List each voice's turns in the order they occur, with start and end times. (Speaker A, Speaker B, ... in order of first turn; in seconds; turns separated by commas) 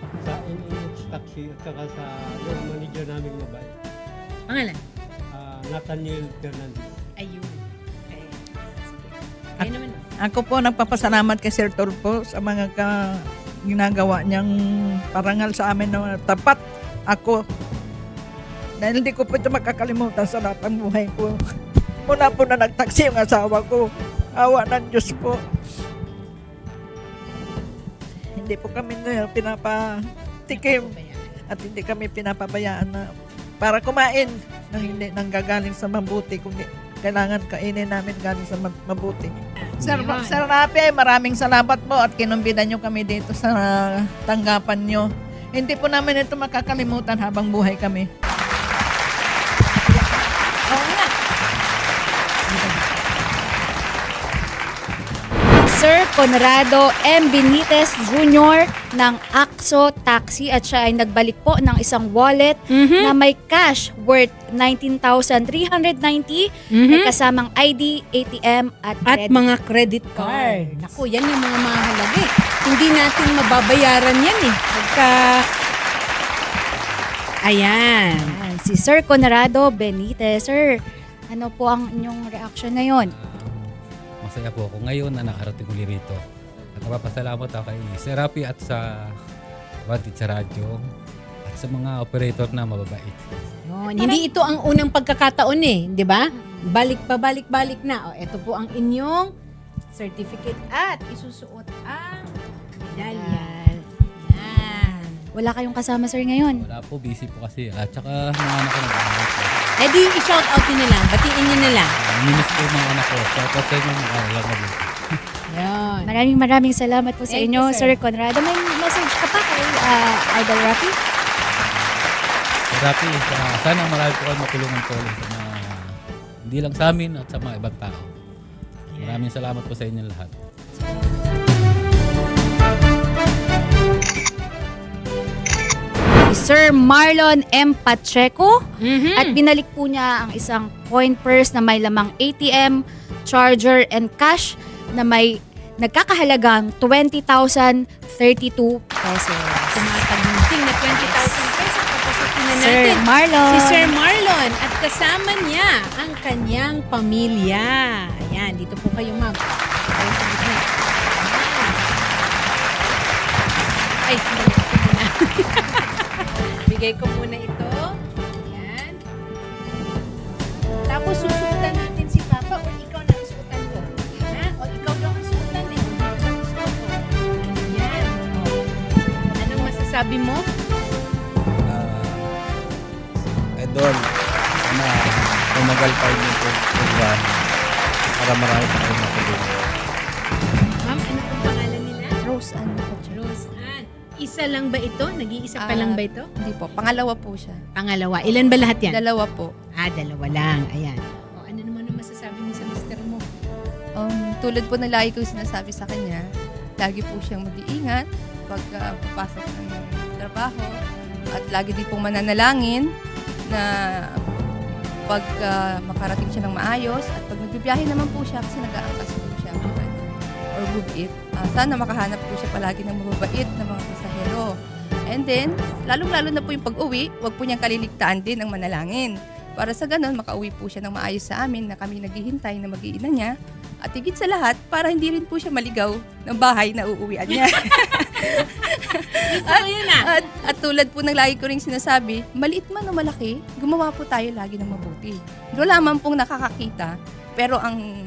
Speaker A: 0.2-3.7, Speaker B: 4.5-4.8, Speaker A: 5.3-6.9, Speaker B: 7.2-10.0, Speaker C: 10.2-14.5, Speaker C: 15.1-17.4, Speaker C: 18.8-21.4, Speaker C: 22.0-25.4, Speaker C: 28.4-30.9, Speaker B: 30.5-31.4, Speaker C: 31.5-48.1, Speaker B: 39.6-40.4, Speaker B: 50.7-51.1, Speaker D: 55.6-69.4, Speaker B: 62.7-63.1, Speaker B: 66.8-67.1, Speaker B: 69.1-75.4, Speaker D: 70.2-71.0, Speaker B: 77.5-78.4, Speaker D: 78.1-80.7, Speaker D: 81.3-83.1, Speaker E: 83.1-83.7, Speaker E: 84.2-86.2, Speaker E: 86.7-89.1, Speaker E: 89.8-90.8, Speaker E: 91.4-93.3, Speaker B: 93.7-99.3, Speaker D: 93.8-94.5, Speaker D: 96.3-96.7, Speaker B: 99.9-102.3, Speaker D: 102.9-103.6, Speaker B: 102.9-105.2, Speaker D: 105.3-106.6, Speaker E: 106.6-109.7, Speaker B: 109.8-111.9, Speaker E: 111.4-114.9, Speaker B: 115.5-116.1, Speaker D: 116.0-120.9, Speaker B: 117.3-117.9, Speaker E: 122.7-125.9, Speaker E: 126.4-128.1, Speaker B: 128.9-129.2, Speaker E: 129.0-130.3, Speaker D: 136.3-138.6, Speaker B: 138.8-139.4, Speaker D: 139.1-150.0, Speaker B: 149.7-163.1, Speaker D: 150.9-151.6, Speaker D: 152.5-153.9, Speaker B: 164.0-169.0, Speaker B: 170.9-178.6, Speaker B: 179.3-180.4, Speaker F: 181.7-182.2, Speaker F: 183.6-184.0, Speaker F: 184.6-187.4, Speaker F: 188.2-189.7, Speaker B: 190.8-192.2, Speaker G: 192.2-193.2, Speaker B: 193.1-196.3, Speaker G: 195.6-197.6, Speaker B: 197.7-199.0, Speaker G: 198.2-199.5, Speaker B: 199.8-203.2, Speaker G: 204.0-206.2, Speaker G: 206.8-210.7, Speaker G: 211.3-212.8, Speaker G: 215.1-224.5, Speaker G: 225.1-233.3, Speaker G: 233.8-247.8, Speaker B: 239.2-240.1